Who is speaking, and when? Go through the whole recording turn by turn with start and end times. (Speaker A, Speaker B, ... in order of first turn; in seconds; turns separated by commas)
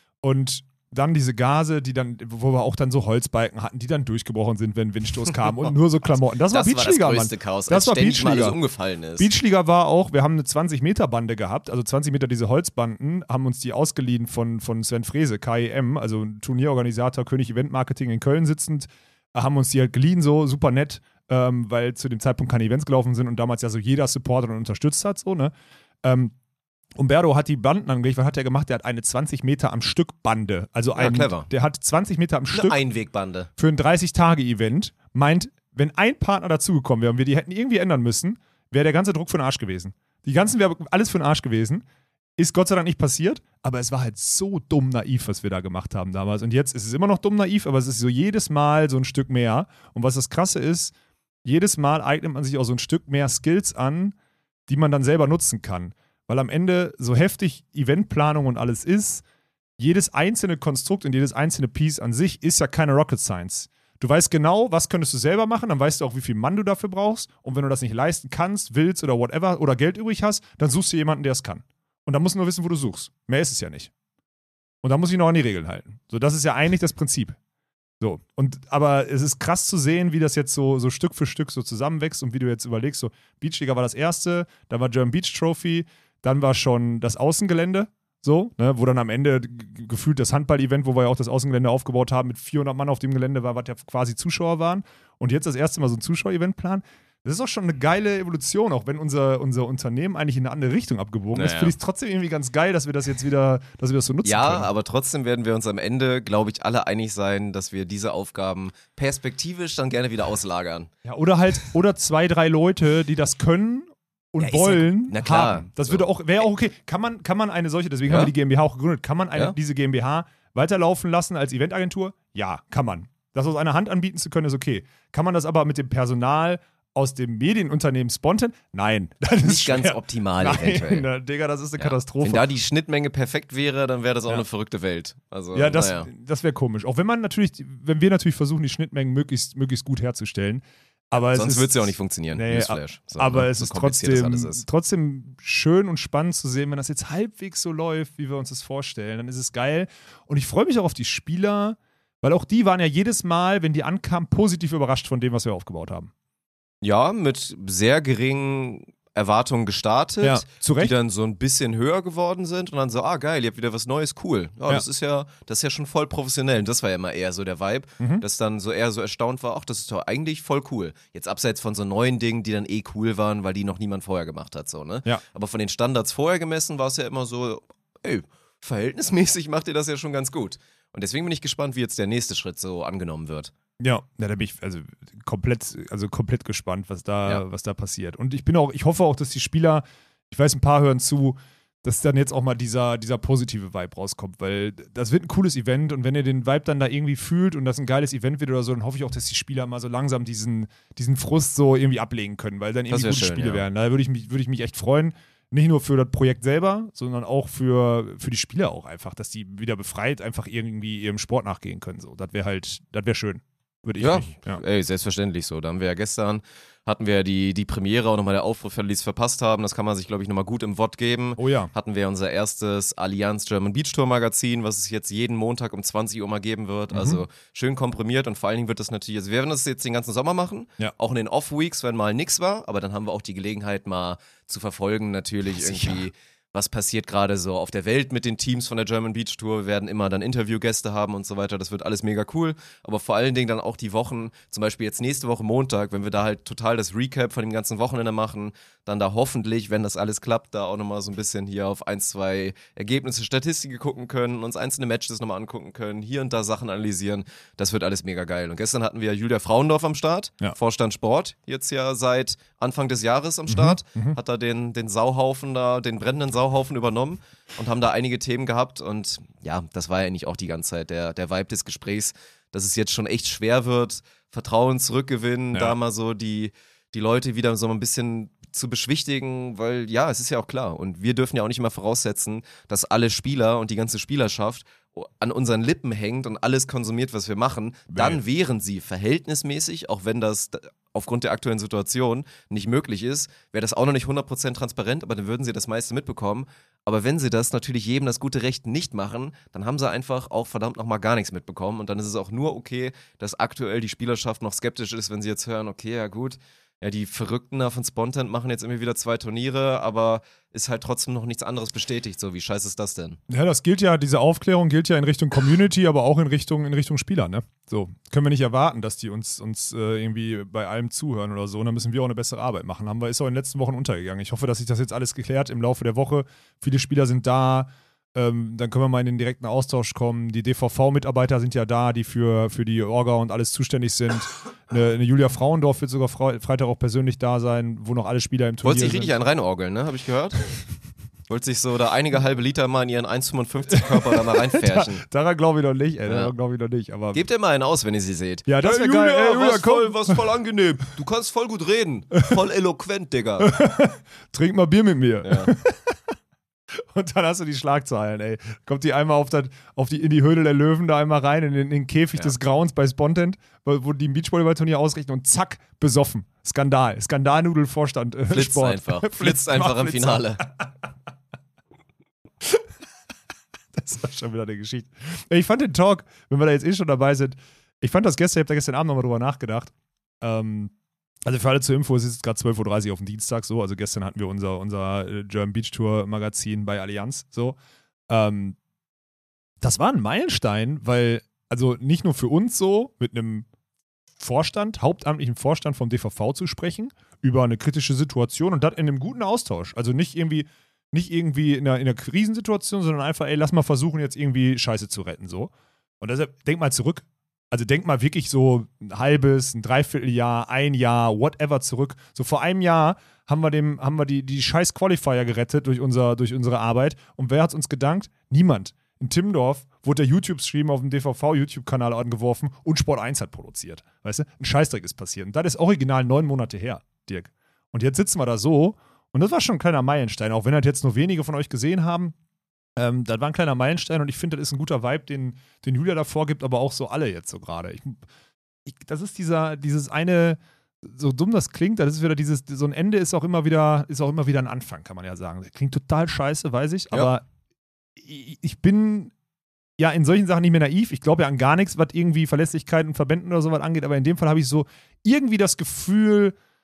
Speaker A: 0.2-8.6, Speaker B: 6.5-9.3, Speaker A: 9.2-25.5, Speaker A: 26.0-26.3, Speaker A: 27.0-32.8, Speaker B: 31.0-31.5, Speaker B: 32.5-33.5, Speaker A: 33.6-41.8, Speaker A: 42.4-50.9, Speaker A: 51.4-54.1, Speaker A: 54.7-59.2, Speaker A: 59.8-73.9, Speaker A: 74.8-77.4, Speaker A: 78.0-104.7, Speaker B: 101.3-101.7, Speaker B: 104.2-110.9, Speaker A: 111.0-132.5, Speaker B: 114.4-116.0, Speaker B: 118.1-118.3, Speaker B: 129.4-131.1, Speaker B: 131.8-136.1, Speaker A: 135.5-156.1, Speaker B: 141.3-144.6, Speaker B: 156.8-183.5, Speaker A: 160.2-160.9, Speaker A: 183.8-214.6, Speaker B: 202.9-203.7, Speaker B: 214.0-313.2, Speaker A: 221.4-221.7, Speaker A: 226.9-227.2, Speaker A: 235.6-236.0, Speaker A: 263.5-264.2, Speaker A: 287.9-288.2, Speaker A: 313.3-339.1, Speaker B: 338.6-340.5, Speaker B: 341.3-345.0, Speaker A: 343.9-347.2, Speaker B: 346.1-346.3, Speaker B: 347.1-353.5, Speaker A: 348.5-350.2, Speaker A: 353.4-356.0, Speaker B: 355.2-355.5, Speaker A: 356.7-370.7, Speaker B: 368.3-370.4, Speaker A: 373.8-380.7, Speaker A: 381.3-387.6, Speaker A: 388.1-388.6, Speaker A: 389.6-393.5, Speaker A: 394.2-432.1, Speaker A: 432.8-438.0, Speaker A: 438.7-447.2, Speaker A: 448.0-449.1, Speaker A: 449.8-456.4